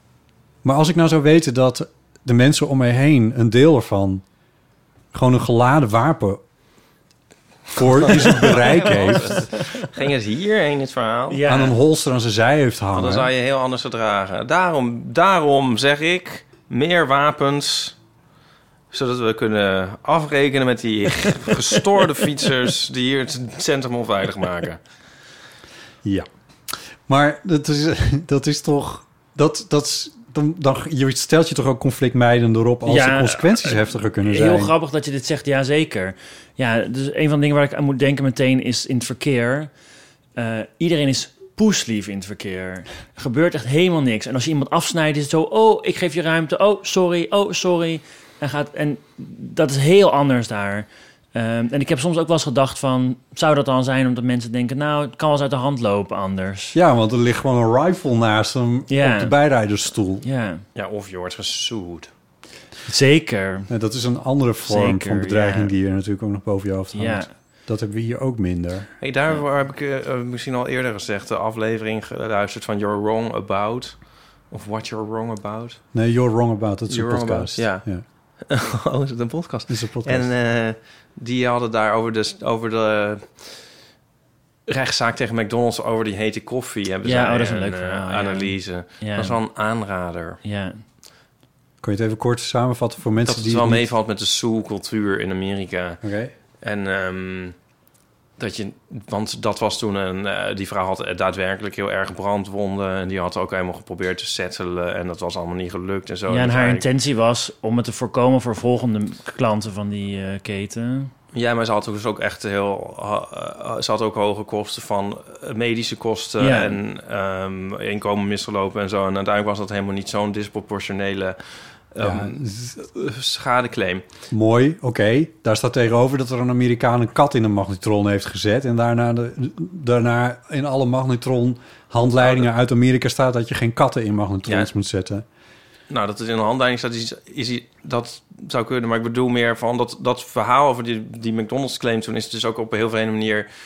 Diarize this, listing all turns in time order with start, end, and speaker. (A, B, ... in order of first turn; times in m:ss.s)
0:00.6-0:04.2 A
0:05.1-0:06.4 A
0:07.7-0:09.4 A
0:08.2-0:11.4 B
0:08.8-0:09.8 C
0:11.3-0:11.8 C
0:11.5-0:13.3 A
0:12.9-0:18.0 B
0:18.9-0:24.8 B
0:26.0-0:34.7 A
0:32.8-0:39.7 C
0:40.4-0:56.8 C
0:56.7-1:00.2 A
0:58.9-0:59.4 C
1:00.2-1:00.6 C
1:00.8-1:02.1 B
1:02.9-1:03.7 C
1:03.7-1:08.9 A
1:04.6-1:05.7 C
1:06.9-1:07.3 C
1:09.0-1:15.8 B
1:15.9-1:18.0 A
1:16.9-1:23.6 B
1:19.7-1:20.3 A
1:24.7-1:30.4 B
1:27.0-1:29.4 C
1:30.4-1:30.8 C
1:31.8-1:33.9 A
1:33.2-1:36.0 B
1:36.0-1:36.3 A
1:36.6-1:37.6 B
1:38.4-1:46.8 B
1:46.3-1:51.1 C
1:51.3-2:04.1 B
1:56.4-1:56.8 C
2:02.0-2:02.8 A
2:04.3-2:15.2 A
2:12.2-2:12.5 B
2:15.9-2:23.5 B